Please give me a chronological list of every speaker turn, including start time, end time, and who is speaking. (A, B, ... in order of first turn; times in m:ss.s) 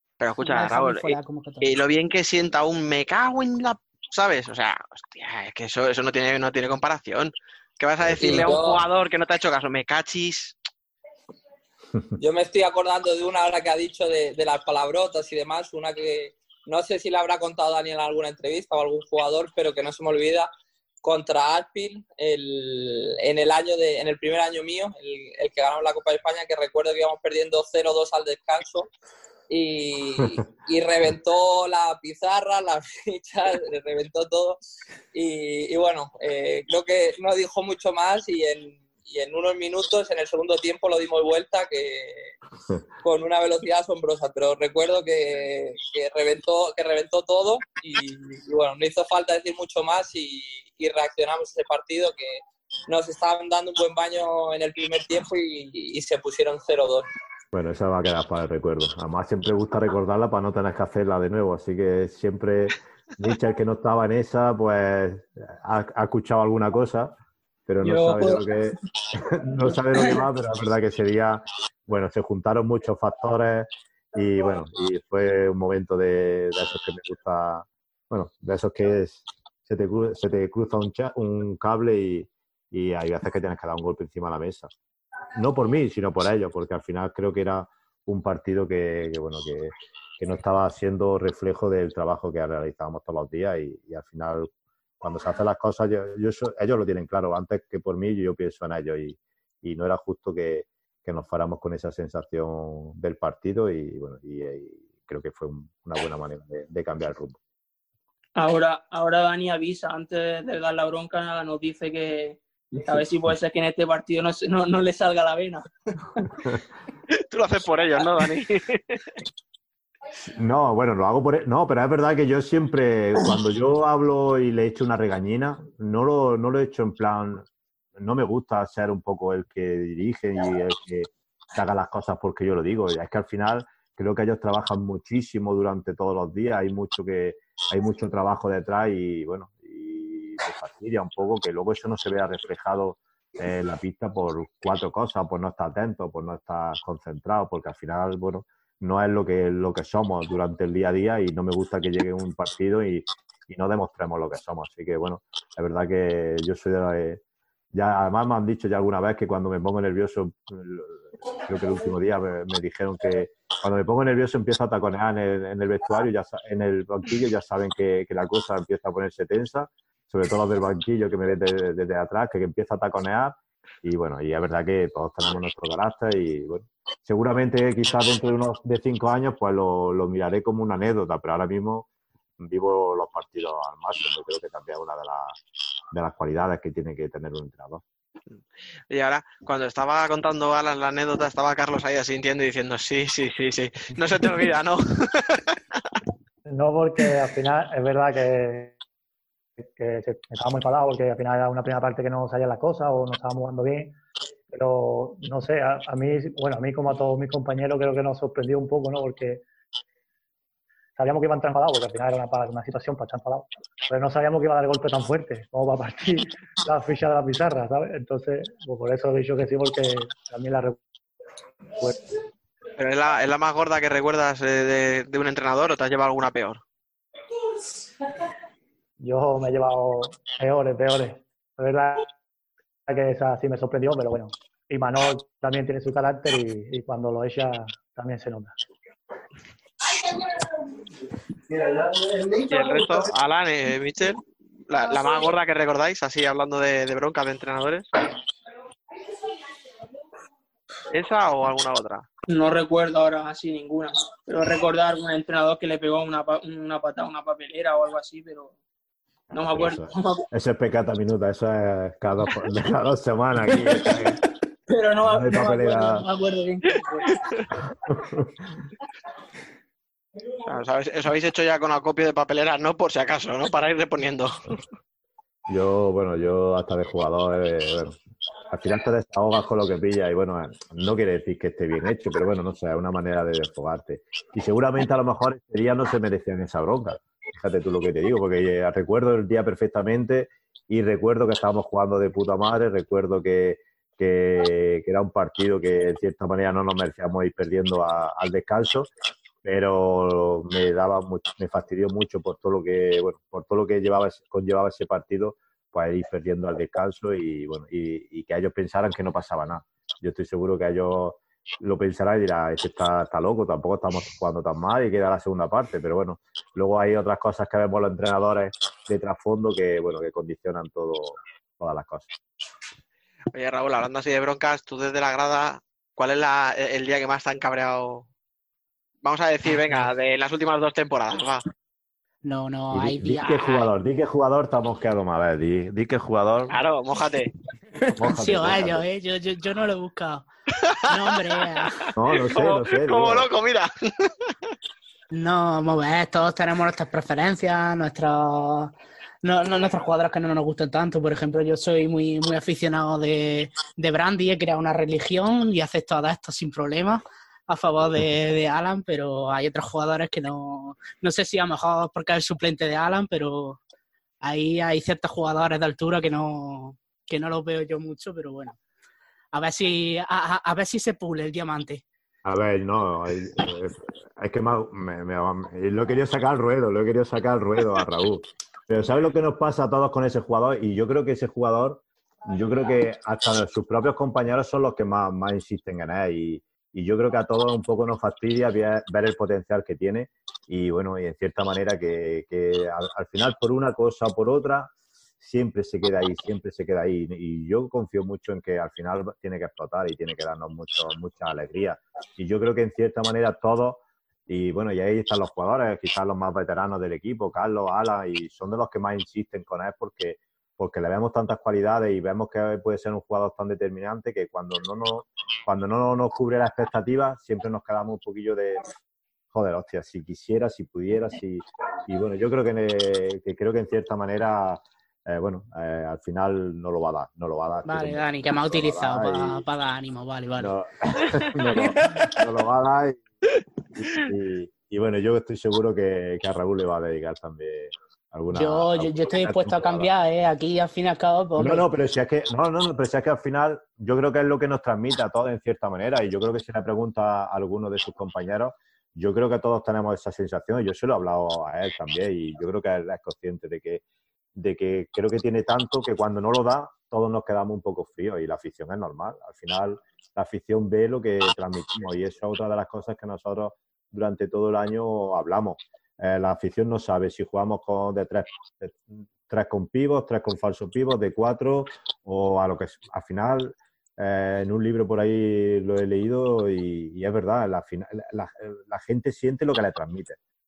0:00.2-0:10.5 A
0:00.4-0:01.8 B
0:08.2-0:08.8 C
0:12.2-0:20.5 C
0:21.0-0:28.9 C
0:29.5-0:34.6 C
0:35.1-0:42.3 C
0:43.0-0:57.1 C
0:57.5-1:07.1 D
1:07.7-1:08.8 D
1:07.8-1:08.7 E
1:09.4-1:24.7 D
1:09.9-1:10.2 E
1:25.3-1:34.5 D
1:35.0-1:47.4 D
1:48.4-1:56.2 E
1:52.8-1:53.1 D
1:57.3-1:59.0 A
2:00.4-2:37.2 D
2:37.7-3:01.9 D
3:02.4-3:05.4 D
3:05.9-3:07.8 D
3:08.3-3:15.6 A
3:16.4-3:18.8 F
3:19.8-3:24.0 F
3:24.5-3:29.4 F
3:31.0-3:40.8 F
3:42.8-3:46.6 A
3:49.0-3:52.1 F
3:52.9-3:58.5 F
4:02.5-4:07.9 A
4:10.9-4:12.0 A
4:12.3-4:18.5 E
4:19.3-4:20.2 E
4:19.3-4:24.2 D
4:24.7-4:27.1 E
4:25.0-4:26.1 D
4:30.4-4:34.4 A
4:35.5-4:58.9 D
4:59.4-5:22.1 D
5:23.3-5:28.0 A
5:29.0-5:31.4 A
5:32.2-5:33.7 B
5:32.7-5:36.6 D
5:36.5-5:37.3 A
5:37.9-5:38.8 D
5:38.0-5:40.3 B
5:40.9-5:41.7 B
5:40.9-5:41.6 A
5:42.0-5:43.3 D
5:42.2-5:44.1 A
5:45.1-6:03.6 B
6:04.2-6:08.6 B
6:09.3-6:11.8 B
6:12.2-6:58.7 D
6:59.3-7:09.4 D
7:07.6-7:10.5 B
7:10.4-7:13.0 D
7:13.8-7:19.9 D
7:18.3-7:21.7 B
7:21.4-7:33.8 D
7:34.3-8:00.2 D